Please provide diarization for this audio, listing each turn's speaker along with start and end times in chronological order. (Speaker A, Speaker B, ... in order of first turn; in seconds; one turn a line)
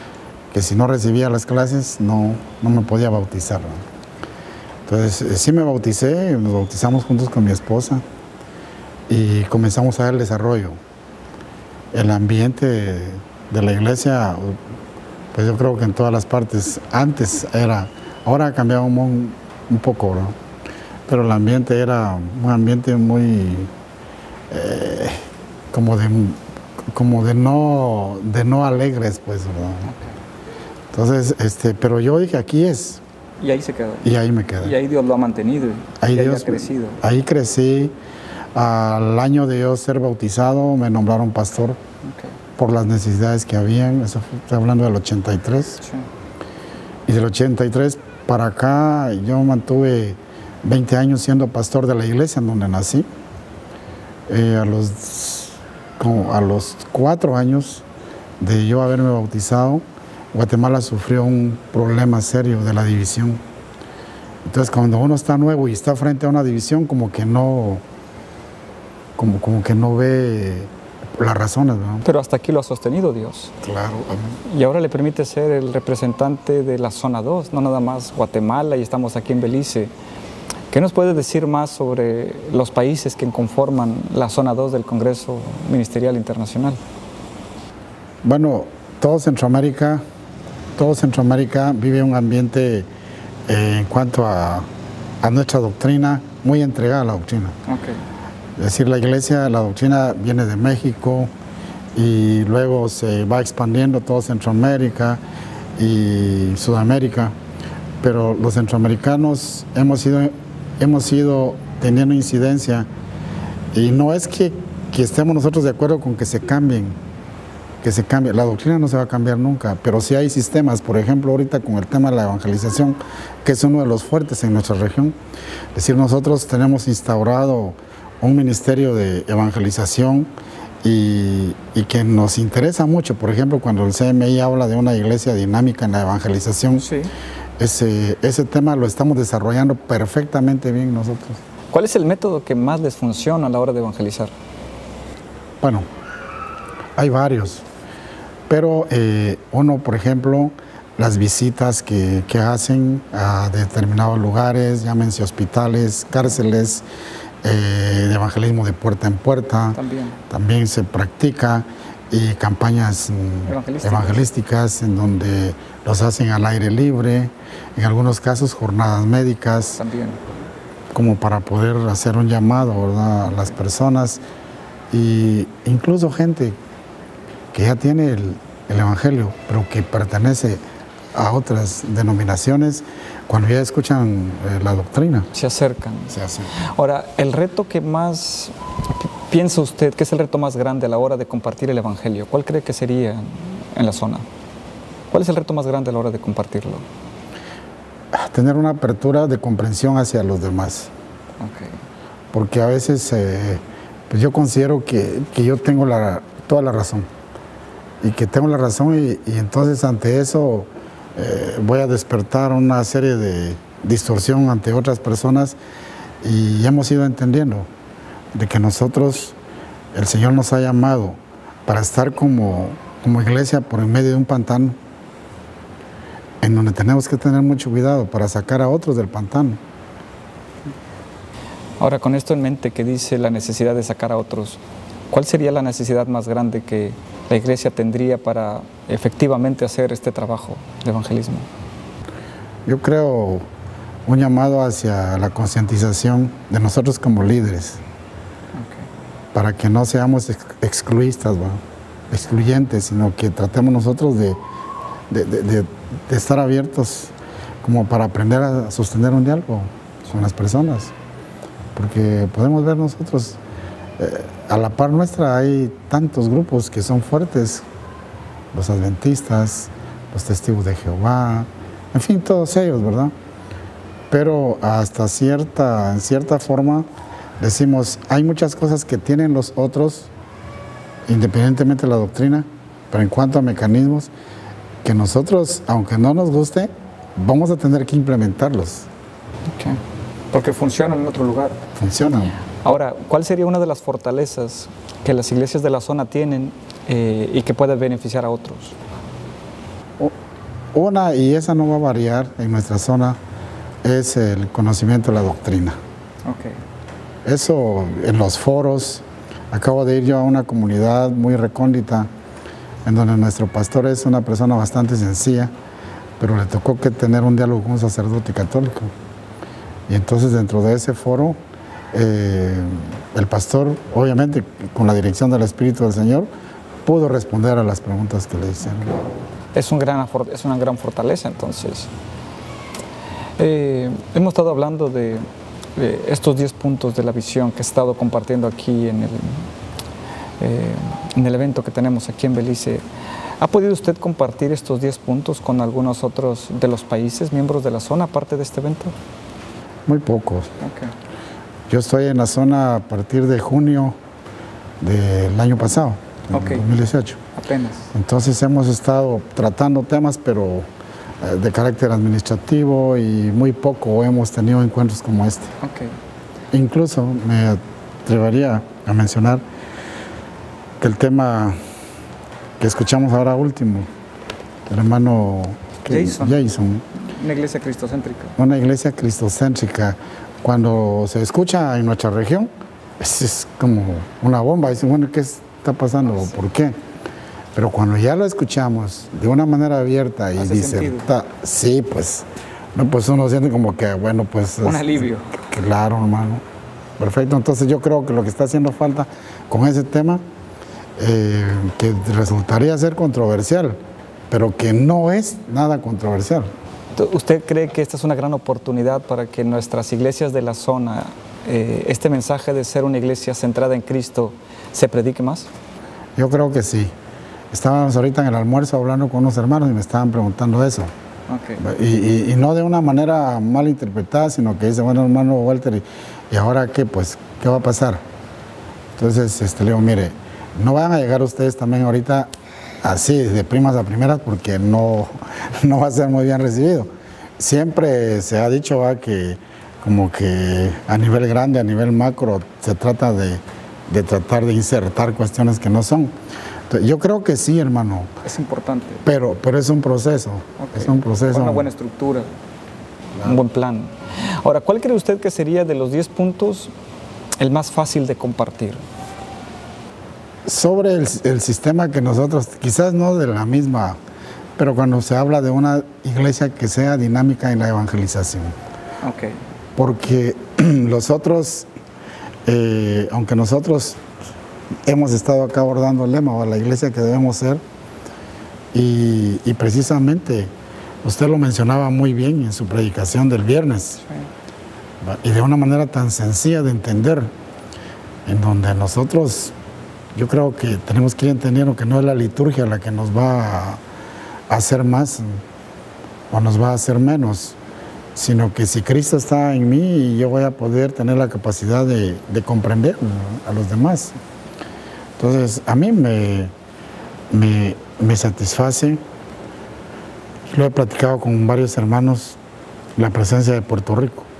Speaker A: 0.5-3.8
Speaker A: 4.9-8.0
Speaker A: 9.1-10.8
Speaker A: 11.9-14.6
Speaker A: 15.3-20.4
Speaker A: 21.1-23.7
Speaker A: 24.5-26.4
Speaker A: 26.9-29.9
Speaker B: 29.9-30.1
Speaker A: 30.9-33.0
Speaker B: 33.4-37.0
Speaker A: 34.0-34.8
Speaker A: 36.0-37.9
Speaker A: 38.5-41.8
Speaker B: 42.0-42.3
Speaker A: 42.6-45.8
Speaker B: 45.8-46.1
Speaker A: 47.1-53.1
Speaker A: 54.3-57.8
Speaker A: 58.4-63.4
Speaker A: 64.4-67.8
Speaker A: 69.2-72.0
Speaker B: 72.0-73.5
Speaker A: 73.6-74.4
Speaker B: 74.4-79.9
Speaker B: 80.7-86.8
Speaker A: 88.2-90.0
Speaker A: 90.8-92.9
Speaker A: 93.5-94.7
Speaker A: 95.2-97.5
Speaker B: 97.7-98.0
Speaker A: 98.6-101.3
Speaker A: 101.9-105.2
Speaker A: 105.8-107.3
Speaker A: 108.0-112.9
Speaker A: 113.7-117.0
Speaker A: 117.8-125.1
Speaker A: 125.7-130.3
Speaker A: 130.8-136.8
Speaker B: 136.8-137.1
Speaker A: 137.6-141.4
Speaker B: 141.7-144.3
Speaker A: 145.6-145.9
Speaker A: 147.0-147.6
Speaker A: 148.5-156.8
Speaker A: 157.4-159.8
Speaker B: 159.7-160.2
Speaker A: 160.3-169.8
Speaker B: 163.4-164.2
Speaker B: 169.8-170.2
Speaker A: 170.9-174.2
Speaker A: 174.9-176.6
Speaker A: 177.5-180.6
Speaker A: 181.1-185.3
Speaker B: 185.3-188.5
Speaker A: 186.1-186.5
Speaker B: 189.3-194.2
Speaker B: 195.1-196.8
Speaker A: 198.1-200.9
Speaker B: 201.4-201.8
Speaker A: 202.3-207.1
Speaker A: 208.0-215.6
Speaker A: 216.2-217.7
Speaker A: 218.3-219.3
Speaker A: 219.9-224.8
Speaker A: 226.4-229.6
Speaker B: 231.8-241.5
Speaker A: 242.7-243.5
Speaker A: 244.1-247.8
Speaker B: 248.5-248.9
Speaker A: 249.3-254.4
Speaker A: 255.1-260.9
Speaker A: 261.7-263.4
Speaker A: 264.0-267.6
Speaker A: 268.5-273.1
Speaker A: 274.1-276.9
Speaker A: 277.4-280.1
Speaker A: 281.1-284.1
Speaker A: 284.8-288.9
Speaker B: 289.5-289.8
Speaker B: 290.3-291.6
Speaker A: 291.8-292.4
Speaker B: 292.6-298.7
Speaker A: 300.7-303.2
Speaker A: 303.8-305.8
Speaker B: 306.2-306.6
Speaker A: 307.2-312.1
Speaker A: 312.8-315.5
Speaker A: 316.2-318.9
Speaker A: 319.9-321.4
Speaker A: 321.9-326.3
Speaker A: 326.8-329.0
Speaker B: 329.5-331.9
Speaker B: 333.4-339.5
Speaker B: 340.4-342.8
Speaker B: 343.4-348.9
Speaker A: 349.9-350.5
Speaker B: 350.6-350.9
Speaker A: 351.7-353.9
Speaker A: 354.8-357.2
Speaker B: 356.3-356.7
Speaker B: 357.3-357.9
Speaker A: 357.9-360.7
Speaker A: 361.2-365.5
Speaker B: 365.6-365.9
Speaker A: 366.5-369.4
Speaker A: 370.8-371.6
Speaker A: 372.6-373.9
Speaker A: 374.7-376.8
Speaker B: 375.8-376.4
Speaker B: 377.0-378.3
Speaker A: 378.4-382.5
Speaker A: 383.0-386.8
Speaker B: 386.1-386.4
Speaker A: 387.5-396.4
Speaker B: 390.4-391.1
Speaker B: 394.6-395.3
Speaker A: 397.0-400.2
Speaker A: 401.0-403.8
Speaker A: 404.3-406.5
Speaker B: 406.9-415.5
Speaker A: 416.2-416.9
Speaker A: 417.5-420.9
Speaker B: 421.3-421.6
Speaker A: 421.6-428.0
Speaker A: 429.0-432.3
Speaker A: 432.8-446.1
Speaker A: 446.7-448.1
Speaker B: 448.2-449.0
Speaker A: 449.0-451.7
Speaker B: 450.6-452.3
Speaker B: 453.2-456.7
Speaker B: 457.4-458.8
Speaker A: 460.4-464.0
Speaker A: 464.6-468.5
Speaker B: 469.0-469.4
Speaker A: 469.8-471.7
Speaker A: 472.4-474.0
Speaker A: 474.9-477.6
Speaker A: 478.7-480.5
Speaker A: 481.0-484.0
Speaker A: 485.0-487.3
Speaker A: 488.2-489.5
Speaker A: 490.1-493.8
Speaker A: 494.5-495.4
Speaker A: 496.3-497.6
Speaker A: 498.1-504.2
Speaker A: 505.2-506.5
Speaker A: 507.3-509.0
Speaker A: 510.5-512.4
Speaker A: 513.0-514.3